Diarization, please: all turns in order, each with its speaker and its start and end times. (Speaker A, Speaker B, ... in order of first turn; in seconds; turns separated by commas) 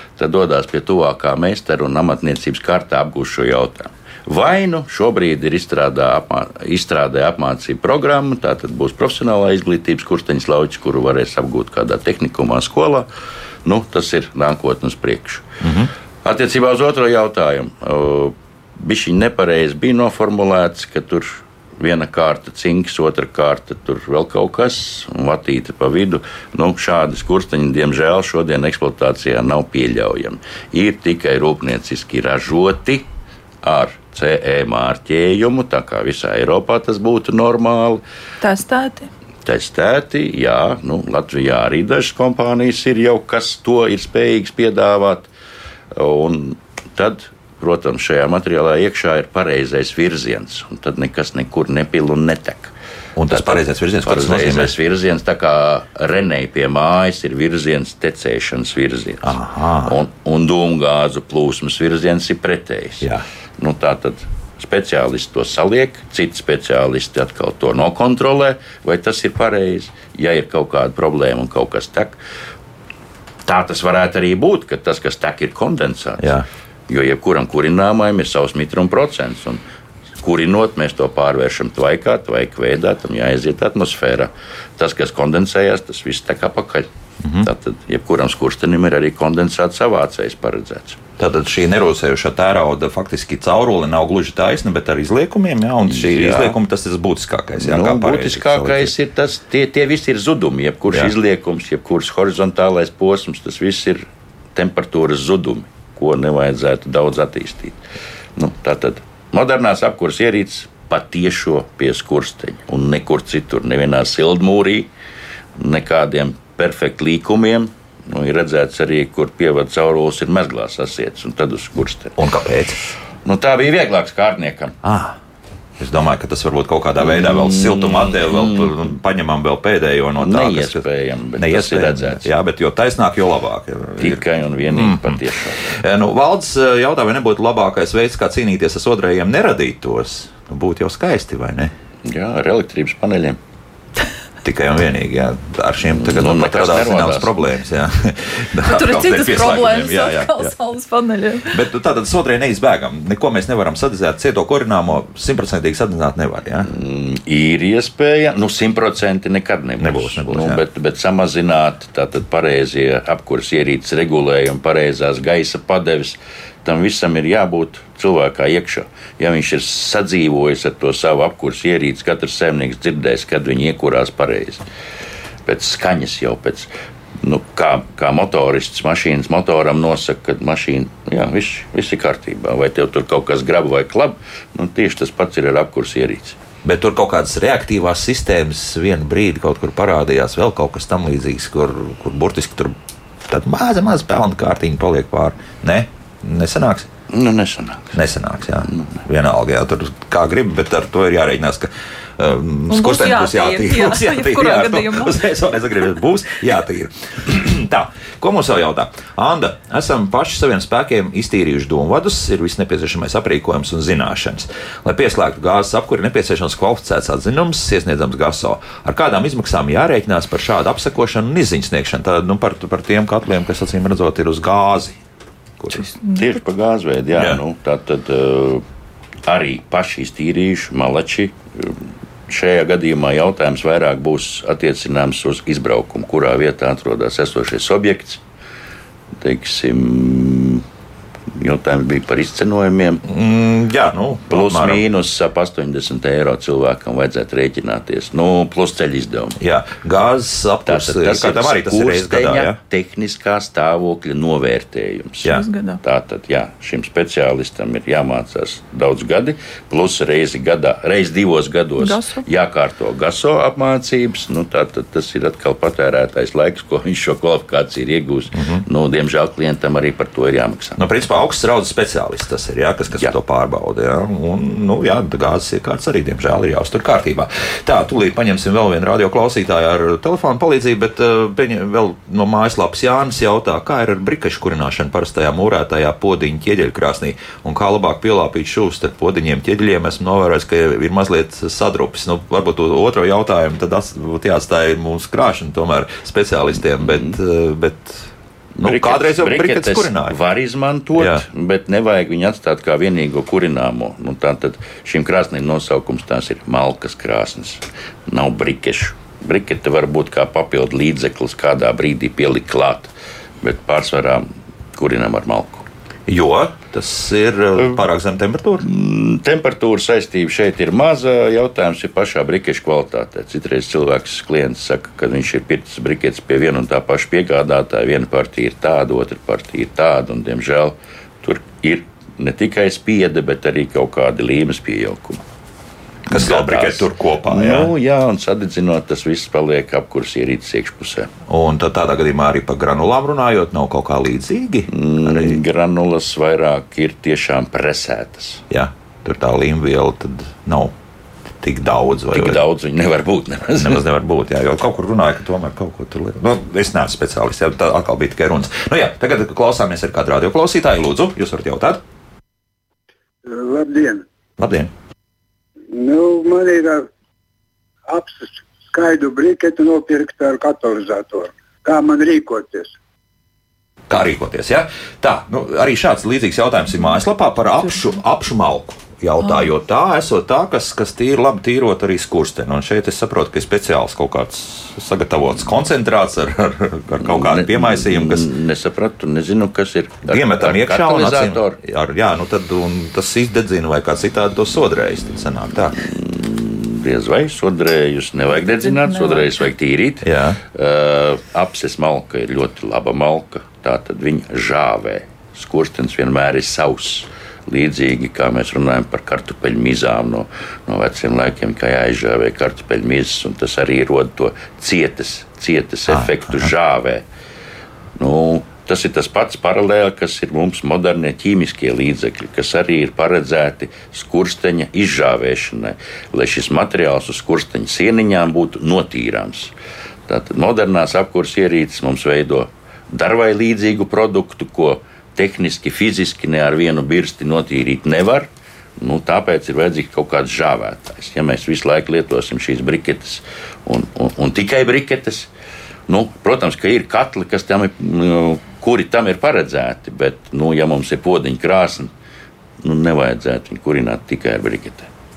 Speaker A: 0.2-13.1, Speaker A: 13.7-15.5, Speaker B: 15.6-15.9, Speaker A: 16.2-33.1, Speaker A: 33.6-38.0, Speaker C: 38.4-39.1, Speaker A: 39.5-45.3, Speaker A: 46.0-52.7, Speaker B: 53.2-54.7, Speaker A: 53.3-63.1, Speaker B: 59.2-60.0, Speaker A: 63.6-72.2, Speaker A: 73.5-79.6, Speaker B: 76.2-76.5, Speaker A: 80.2-86.9, Speaker B: 87.2-87.5, Speaker A: 87.4-91.0, Speaker B: 91.2-98.9, Speaker A: 95.9-96.6, Speaker A: 97.6-107.8, Speaker A: 108.4-114.9, Speaker A: 115.6-122.2, Speaker B: 122.2-122.8, Speaker A: 123.2-124.8, Speaker B: 124.8-125.2, Speaker B: 125.8-130.8, Speaker A: 127.0-128.9, Speaker A: 130.2-132.3, Speaker B: 131.4-141.7, Speaker A: 134.0-135.6, Speaker A: 142.1-143.4, Speaker B: 144.4-150.6, Speaker A: 145.9-147.4, Speaker C: 148.6-151.6, Speaker B: 151.5-156.7, Speaker A: 156.7-174.6, Speaker B: 159.8-160.6, Speaker A: 175.5-176.7, Speaker A: 177.2-186.4, Speaker B: 186.6-192.8, Speaker B: 193.3-196.9, Speaker A: 197.1-198.0, Speaker B: 197.9-225.0, Speaker A: 198.7-198.9, Speaker C: 202.7-205.2, Speaker B: 225.6-225.9, Speaker A: 226.1-228.6, Speaker A: 229.2-238.2, Speaker A: 239.2-240.7, Speaker A: 241.3-243.0, Speaker B: 243.1-244.8, Speaker A: 244.3-249.4, Speaker B: 249.4-252.6, Speaker A: 250.7-270.8, Speaker C: 255.3-255.8, Speaker C: 261.8-262.3, Speaker B: 268.4-268.6, Speaker B: 270.8-298.1, Speaker A: 296.8-297.2, Speaker A: 298.6-315.7, Speaker B: 298.6-300.2, Speaker B: 301.0-301.2, Speaker B: 316.1-318.7, Speaker A: 318.6-335.2, Speaker B: 336.1-337.7, Speaker A: 336.1-341.1, Speaker B: 341.3-345.4, Speaker A: 344.7-348.4, Speaker B: 348.5-350.7, Speaker B: 351.4-352.4, Speaker A: 352.1-353.8, Speaker B: 353.6-361.8, Speaker D: 363.3-364.1, Speaker B: 364.4-364.7, Speaker D: 365.7-366.9, Speaker D: 367.9-372.7, Speaker B: 373.9-388.3, Speaker C: 379.2-379.5, Speaker A: 387.0-391.6, Speaker B: 390.1-395.8, Speaker A: 395.8-417.0, Speaker C: 398.4-399.3, Speaker B: 400.0-400.4, Speaker B: 415.9-416.5, Speaker A: 418.0-429.5, Speaker A: 430.1-438.3, Speaker A: 438.8-445.3, Speaker A: 445.9-451.9, Speaker A: 452.6-454.9